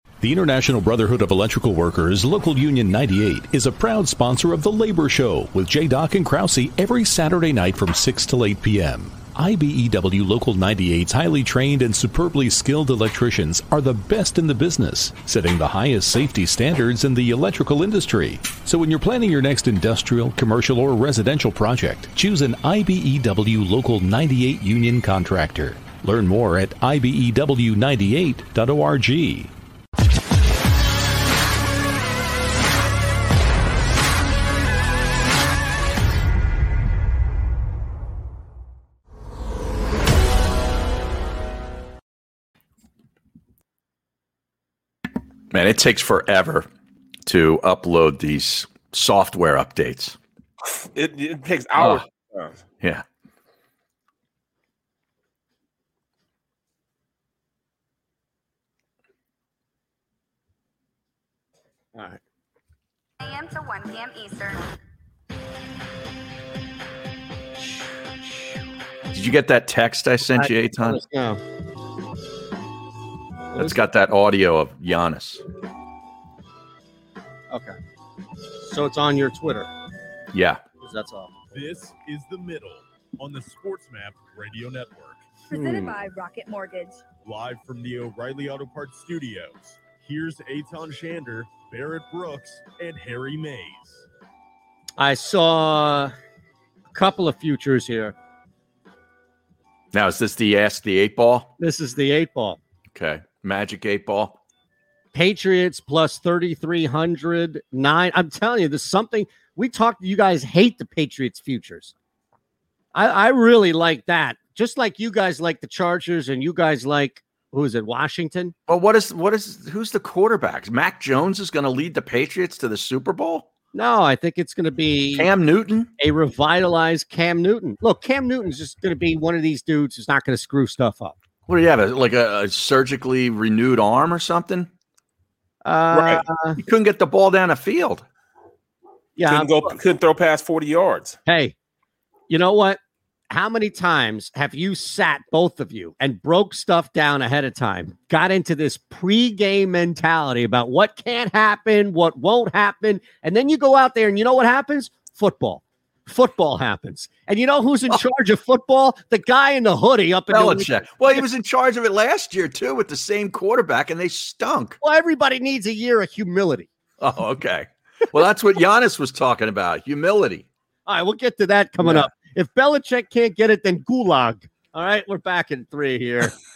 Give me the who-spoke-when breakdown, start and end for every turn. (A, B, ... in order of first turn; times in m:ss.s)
0:00.2-0:29.5 A
0:45.5-0:46.7 B
0:47.2-0:50.2 B
0:50.6-0:52.6 C
0:51.8-0:52.0 B
1:01.9-1:02.2 D
1:03.2-1:04.7 E
1:09.1-1:11.0 B
1:10.4-1:11.4 D
1:13.5-1:15.4 B
1:17.5-1:17.8 D
1:18.6-1:19.7 D
1:20.3-1:20.6 B
1:20.8-1:21.5 D
1:21.5-1:25.3 F
1:25.5-1:27.0 E
1:25.5-1:26.0 D
1:27.2-1:34.1 F
1:35.0-1:36.1 D
1:36.9-1:38.2 D
1:39.9-1:41.5 B
1:41.6-1:42.6 D
1:42.9-1:44.4 B
1:45.1-1:51.9 D
1:52.9-1:58.5 D
1:58.7-2:03.5 B
2:03.7-2:05.3 D
2:05.1-2:05.9 B
2:06.0-2:11.1 D
2:11.5-2:14.7 B
2:15.6-2:16.6 D
2:16.6-2:18.0 B
2:19.2-2:19.7 D
2:19.2-2:21.2 C
2:21.3-2:21.5 D
2:22.3-2:22.8 D
2:23.3-2:41.2 D
2:40.3-2:44.8 B
2:44.8-2:46.7 D
2:47.0-2:50.5 B
2:50.8-2:56.3 D
2:51.8-2:52.1 B